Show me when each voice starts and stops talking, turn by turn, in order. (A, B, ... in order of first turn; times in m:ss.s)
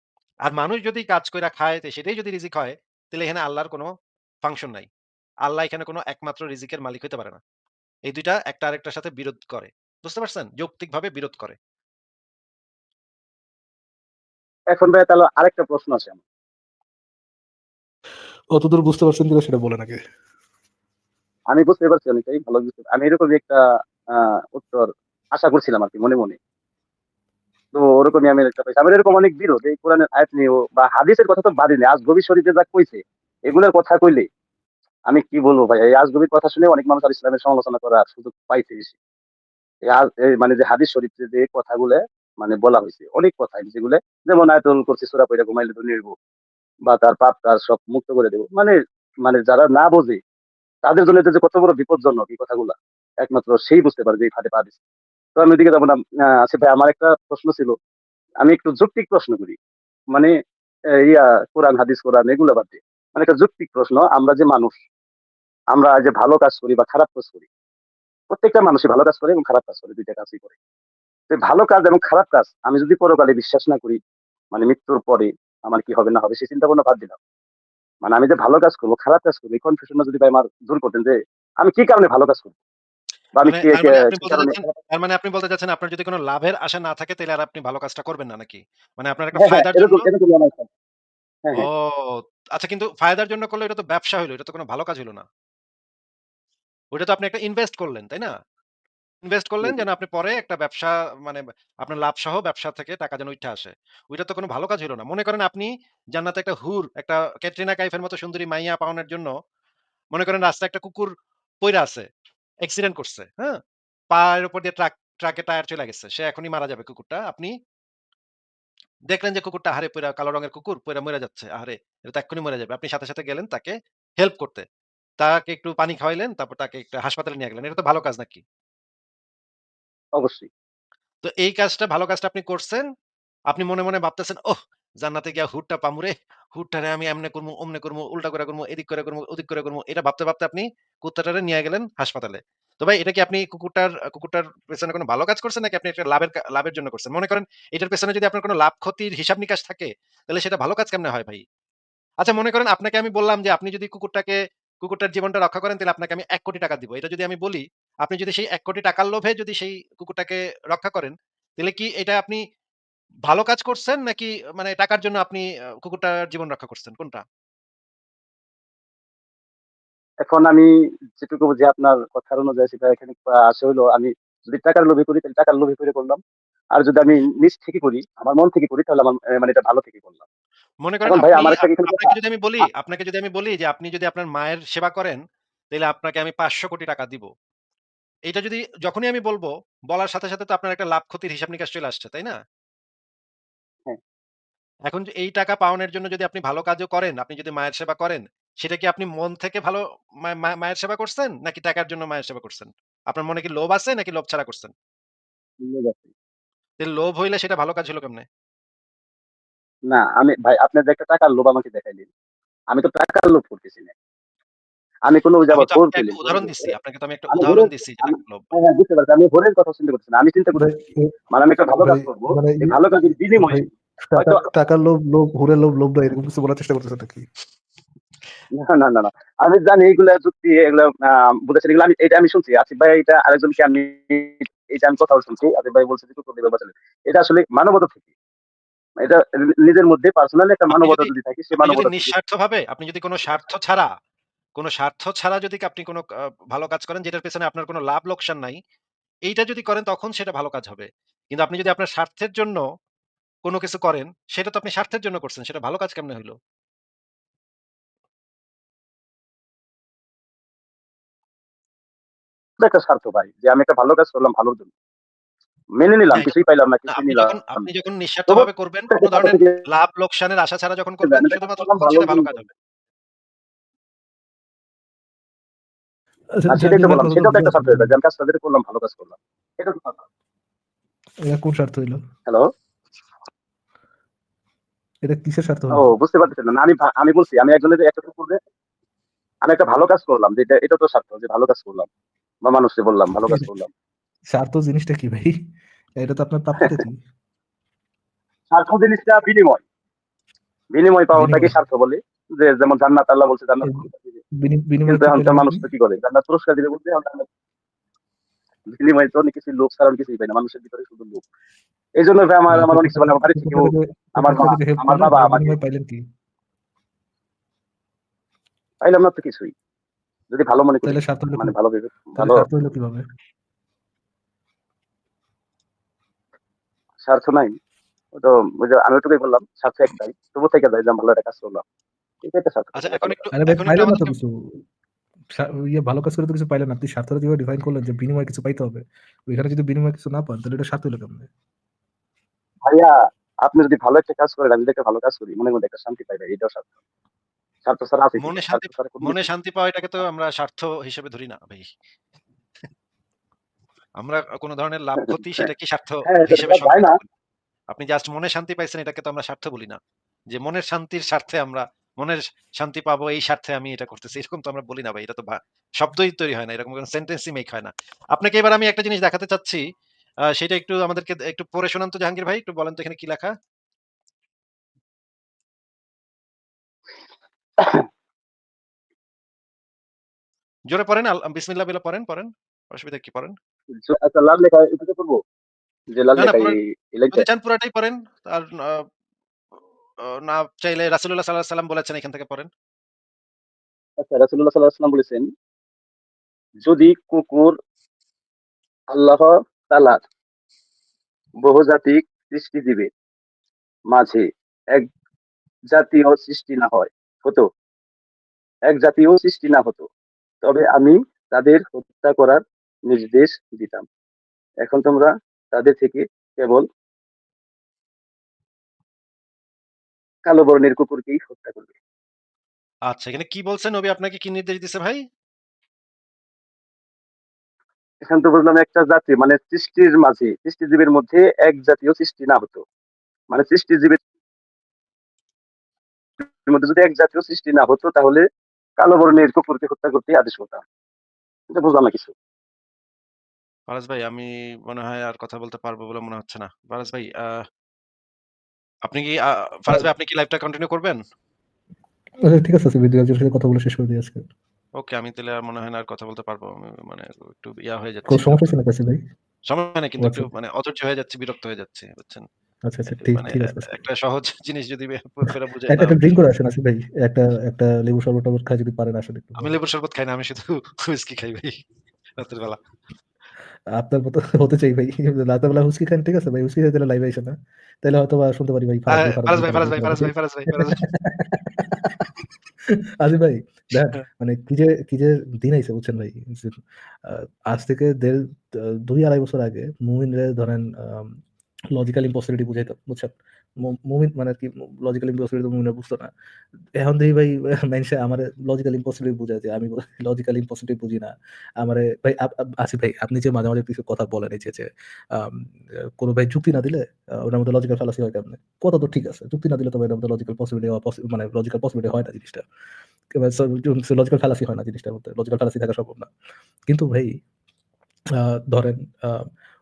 0:00.5-0:03.9 A
0:04.4-0:04.9 A
0:05.5-0:07.4 A
0:08.1-0:11.6 A
0:14.7-0:16.2 B
0:18.5-0:20.0 C
0:21.5-0:23.6 B
0:24.1-0:26.4 B
0:27.7-0:34.3 B
0:35.1-0:39.0 B
0:39.9-0:46.1 B
0:46.9-0:50.2 B
0:50.8-0:54.8 B
0:55.4-0:57.8 B
0:58.4-0:59.6 B
1:01.0-1:04.7 B
1:05.7-1:07.4 B
1:08.3-1:10.5 B
1:11.3-1:14.0 B
1:14.5-1:17.2 B
1:18.0-1:22.6 B
1:23.4-1:24.7 B
1:23.4-1:30.0 A
1:29.4-1:30.7 B
1:31.6-1:35.2 A
1:36.9-1:38.3 A
1:39.2-1:49.3 A
1:50.1-1:51.1 A
1:51.6-1:52.1 A
1:52.6-1:53.6 A
1:54.1-1:57.5 A
1:59.1-2:04.7 A
2:05.2-2:08.4 A
2:10.2-2:10.5 B
2:11.2-2:12.9 A
2:13.5-2:31.4 A
2:32.2-2:42.4 A
2:43.3-2:47.2 A
2:50.2-2:56.2 B
2:56.8-3:00.2 B
3:00.8-3:05.2 A
3:01.1-3:02.7 B
3:05.7-3:07.3 A
3:08.3-3:12.4 A
3:14.9-3:24.7 A
3:25.6-3:26.1 B
3:26.8-3:28.3 A
3:29.9-3:32.1 B
3:32.7-3:33.9 B
3:35.1-3:36.7 B
3:35.5-3:38.5 A
3:37.3-3:40.7 B
3:40.6-3:41.1 C
3:41.3-3:44.4 B
3:41.8-3:42.8 C
3:43.4-3:47.3 C
3:48.5-3:58.0 B
3:59.0-4:02.2 B
4:00.7-4:03.9 A
4:04.6-4:08.6 A
4:09.3-4:12.6 A
4:13.5-4:16.4 A
4:22.6-4:24.7 B
4:25.8-4:27.7 B
4:26.1-4:32.5 A
4:28.3-4:29.6 B
4:31.0-4:32.3 B
4:36.4-4:37.9 C
4:36.5-4:40.0 B
4:41.2-4:42.0 C
4:45.0-4:45.9 C
4:45.7-4:48.4 B
4:49.4-4:51.9 B
4:52.4-4:53.7 B
4:54.3-4:55.4 C
4:56.0-4:57.0 C
4:58.5-4:59.6 B
5:00.7-5:04.2 B
5:01.1-5:01.6 C
5:04.4-5:05.7 C
5:04.9-5:07.3 B
5:08.7-5:11.2 B
5:12.0-5:15.6 B
5:12.5-5:16.0 C
5:18.8-5:19.5 B
5:20.3-5:22.5 B
5:20.8-5:21.5 C
5:22.2-5:23.0 C
5:27.0-5:27.6 B
5:28.2-5:31.6 B
5:32.2-5:33.3 B
5:32.8-5:34.2 A
5:33.3-5:34.6 C
5:35.3-5:41.3 C
5:42.6-5:46.7 B
5:47.7-5:49.3 B
5:48.2-5:51.7 A
5:54.0-5:57.0 A
5:55.0-5:55.5 B
5:56.1-5:57.0 B
5:57.7-5:59.8 A
6:00.3-6:09.6 A
6:10.3-6:13.3 A
6:17.6-6:17.9 B
6:20.7-6:23.4 A
6:23.8-6:25.2 B
6:25.9-6:27.2 B
6:26.2-6:26.6 A
6:27.1-6:28.8 A
6:30.2-6:32.5 A
6:34.0-6:35.3 B
6:36.6-6:37.6 B
6:38.9-6:40.0 B
6:41.4-6:42.9 B
6:43.9-6:44.9 B
6:45.7-6:47.5 B
6:48.7-6:49.9 B
6:50.4-6:53.8 B
6:54.6-6:56.6 B
7:00.3-7:01.7 B
7:02.9-7:05.0 A
7:08.0-7:12.6 B
7:13.3-7:14.0 B
7:16.4-7:18.2 B
7:18.8-7:20.6 B
7:21.5-7:22.1 B
7:23.7-7:27.4 A
7:28.9-7:31.0 A
7:32.3-7:34.2 C
7:34.8-7:38.5 A
7:38.1-7:39.0 C
7:39.5-7:42.3 A
7:40.0-7:40.3 C
7:42.6-7:43.7 C
7:43.0-7:46.1 A
7:45.7-7:49.6 C
7:49.4-7:51.6 A
7:52.2-7:52.6 A
7:53.8-8:02.1 C
7:58.9-8:00.8 A
8:02.7-8:11.2 C
8:11.7-8:16.1 C
8:16.8-8:25.5 C
8:26.0-8:32.4 C
8:33.2-8:36.1 C
8:36.7-8:37.2 C
8:38.2-8:39.3 C